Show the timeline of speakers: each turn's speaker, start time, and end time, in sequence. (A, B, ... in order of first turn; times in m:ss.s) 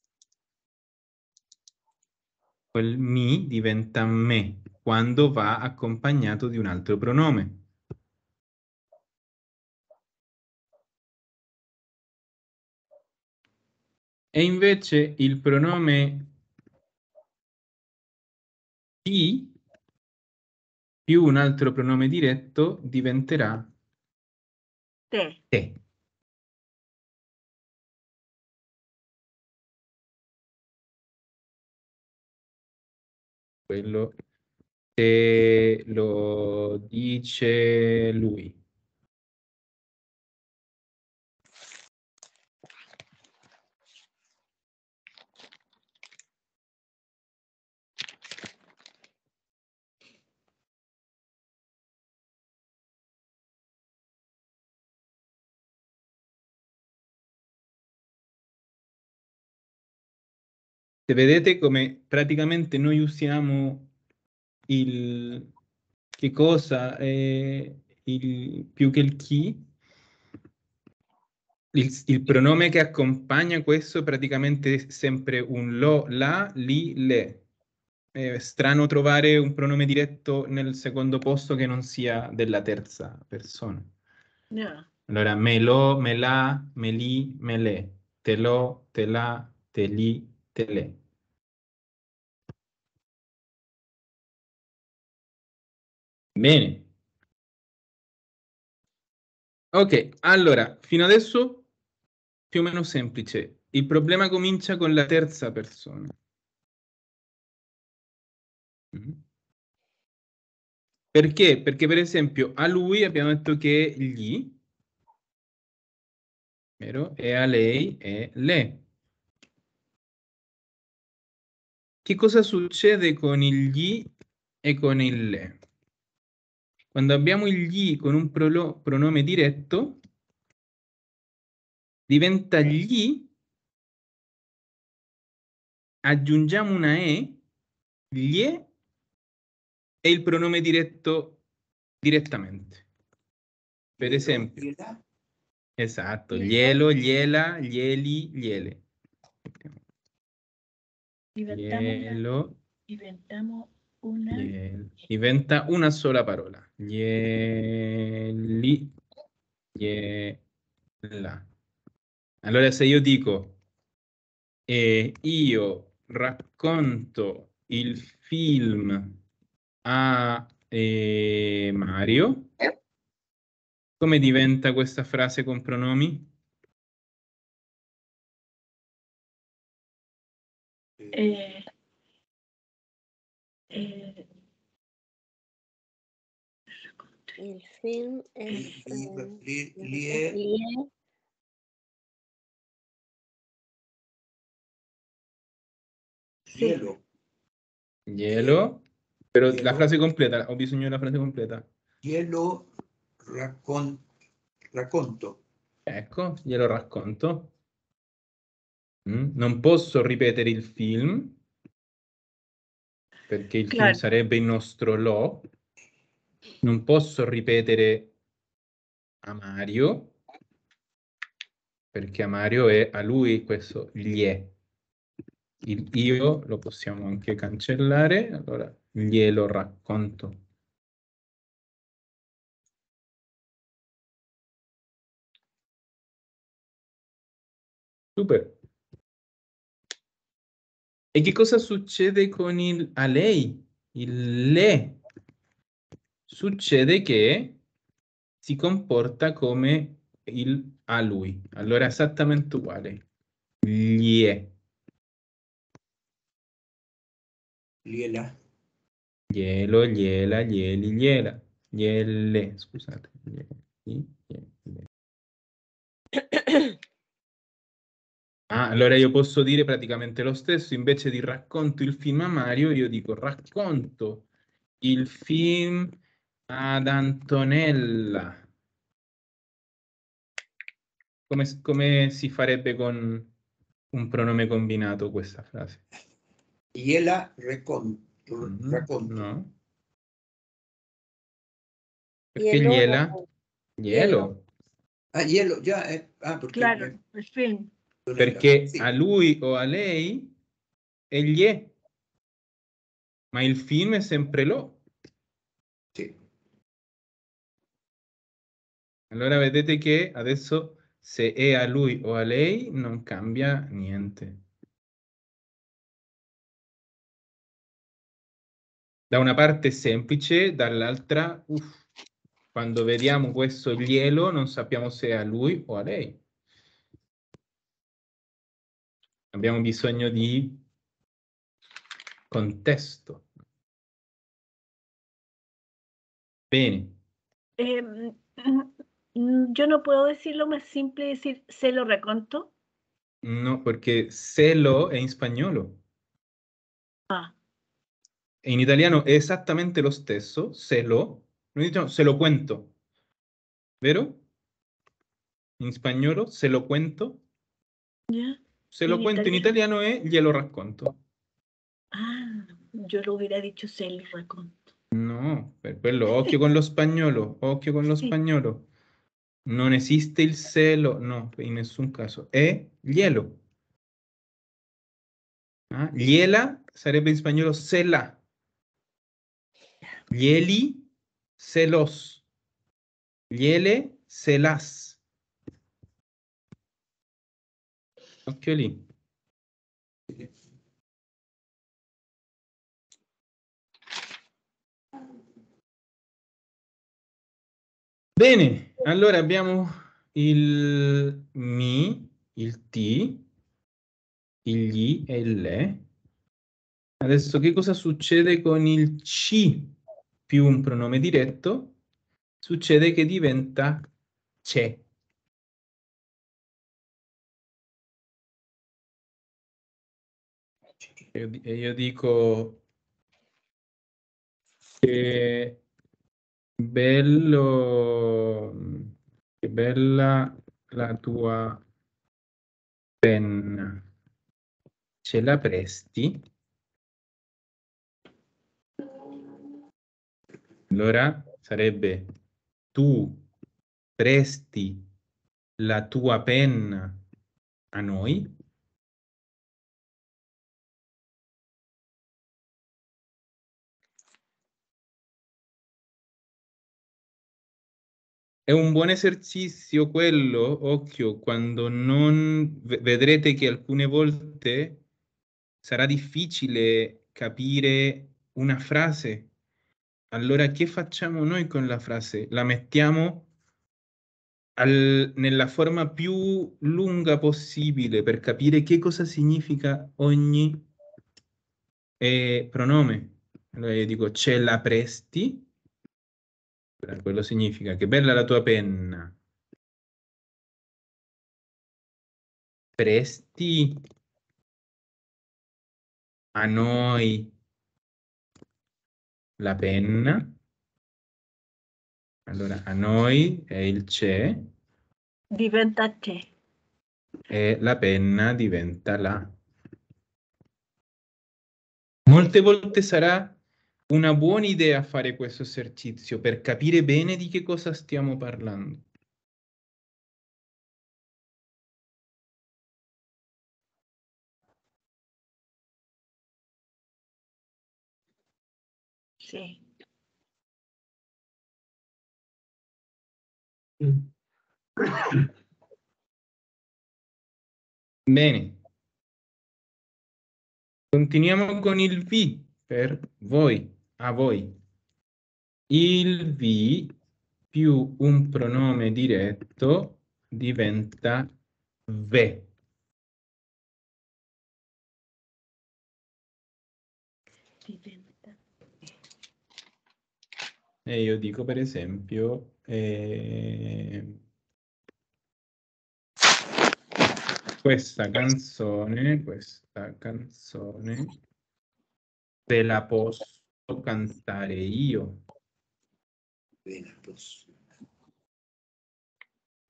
0:02.7-0:07.6 A
0:14.3-0:16.3 A
0:19.0-0:19.6 A
0:21.1-0:23.7 A
0:25.1-0:25.4 B
0:25.5-0:25.8 A
0:33.7-0:34.2 A
0:35.0-0:38.6 A
1:01.1-1:03.9 A
1:04.7-1:05.5 A
1:06.2-1:09.6 A
1:11.7-1:17.4 A
1:18.1-1:23.9 A
1:24.5-1:24.9 B
1:25.1-1:31.0 A
1:36.4-1:36.9 A
1:39.7-1:41.7 A
1:42.5-1:46.1 A
1:48.9-1:49.2 A
1:51.1-1:54.6 A
1:56.8-1:58.8 A
2:02.0-2:04.1 A
2:04.6-2:05.6 A
2:06.9-2:10.0 A
2:12.1-2:13.3 A
2:16.0-2:17.4 A
2:18.1-2:18.7 A
2:20.0-2:21.4 A
2:22.0-2:22.8 A
2:24.0-2:25.0 C
2:24.0-2:24.6 A
2:25.8-2:28.8 A
2:26.3-2:26.8 B
2:29.4-2:29.8 A
2:31.4-2:32.2 B
2:31.5-2:32.6 A
2:32.9-2:34.5 B
2:34.3-2:39.0 A
2:39.8-2:40.4 A
2:41.0-2:41.5 A
2:42.4-2:43.6 A
2:44.7-2:49.2 A
2:49.8-2:52.5 A
2:54.0-2:56.3 A
3:01.0-3:01.3 C
3:01.1-3:01.7 B
3:03.7-3:04.3 B
3:07.1-3:07.4 B
3:07.4-3:10.9 D
3:08.5-3:10.4 C
3:16.5-3:17.0 C
3:16.6-3:16.8 B
3:18.1-3:21.7 A
3:19.5-3:19.9 C
3:22.0-3:22.7 C
3:23.2-3:24.0 C
3:24.7-3:25.4 C
3:25.9-3:27.5 A
3:29.1-3:31.4 A
3:33.3-3:35.5 A
3:33.7-3:34.0 B
3:36.6-3:38.1 A
3:39.2-3:40.2 A
3:41.9-3:44.5 A
3:45.6-3:50.4 A
3:58.2-3:58.6 A
4:01.1-4:05.0 A
4:06.3-4:07.6 A
4:08.4-4:13.0 A
4:13.6-4:14.5 A
4:17.8-4:18.4 C
4:19.3-4:24.9 A
4:28.5-4:34.3 A
4:34.8-4:36.0 A
4:36.5-4:38.5 A
4:41.3-4:43.3 A
4:43.9-4:45.8 A
4:46.7-4:49.3 C
4:48.4-4:49.5 A
4:52.3-4:53.2 A
4:52.4-4:53.2 D
4:53.8-4:54.4 A
4:53.9-4:54.3 D
4:55.1-4:57.0 C
4:56.5-4:57.7 B
4:58.1-4:58.9 C
4:58.2-5:00.4 A
5:01.1-5:01.7 A
5:03.3-5:04.8 A
5:09.1-5:14.4 A
5:19.1-5:21.8 A
5:22.5-5:26.2 A
5:29.3-5:30.6 A
5:32.3-5:33.2 A
5:36.5-5:37.0 A
5:37.6-5:42.5 B
5:43.2-5:45.8 A
5:48.4-5:52.7 A
5:53.8-5:54.2 A
5:55.6-5:57.2 A
5:58.1-5:59.5 B
5:58.7-6:01.0 A
6:01.9-6:04.6 B
6:04.9-6:08.7 A
6:09.5-6:13.4 A
6:15.7-6:18.2 A
6:20.1-6:20.9 A
6:21.4-6:22.2 A
6:23.3-6:25.0 A
6:28.3-6:28.9 A
6:38.2-6:43.3 A
6:44.4-6:45.8 A
6:47.0-6:49.8 A
6:50.3-6:51.8 A
6:52.4-6:53.9 A
6:54.4-6:54.8 A
7:01.2-7:02.6 A
7:04.8-7:05.6 A
7:06.6-7:08.9 A
7:09.4-7:11.6 A
7:13.0-7:13.9 A
7:15.0-7:16.2 A
7:20.7-7:22.1 A
7:22.7-7:23.3 A
7:24.0-7:24.9 A
7:25.6-7:27.0 A
7:27.7-7:28.3 A
7:38.5-7:44.8 A
7:45.6-7:49.3 A
7:50.1-7:53.3 A
7:54.6-8:00.7 A
8:02.0-8:05.5 A
8:06.8-8:09.2 A
8:12.8-8:13.8 A
8:16.4-8:17.3 A
8:19.4-8:20.4 A
8:22.3-8:24.5 A
8:25.3-8:26.3 B
8:27.3-8:29.4 A
8:32.1-8:33.4 A
8:33.9-8:38.8 A
8:49.2-8:49.6 B
8:58.1-8:58.6 A
9:00.9-9:04.6 A
9:05.7-9:06.9 A
9:07.5-9:11.3 A
9:11.9-9:12.5 A
9:17.6-9:18.4 B
9:20.9-9:24.2 A
9:27.6-9:31.1 A
9:32.5-9:35.2 A
9:36.6-9:37.5 C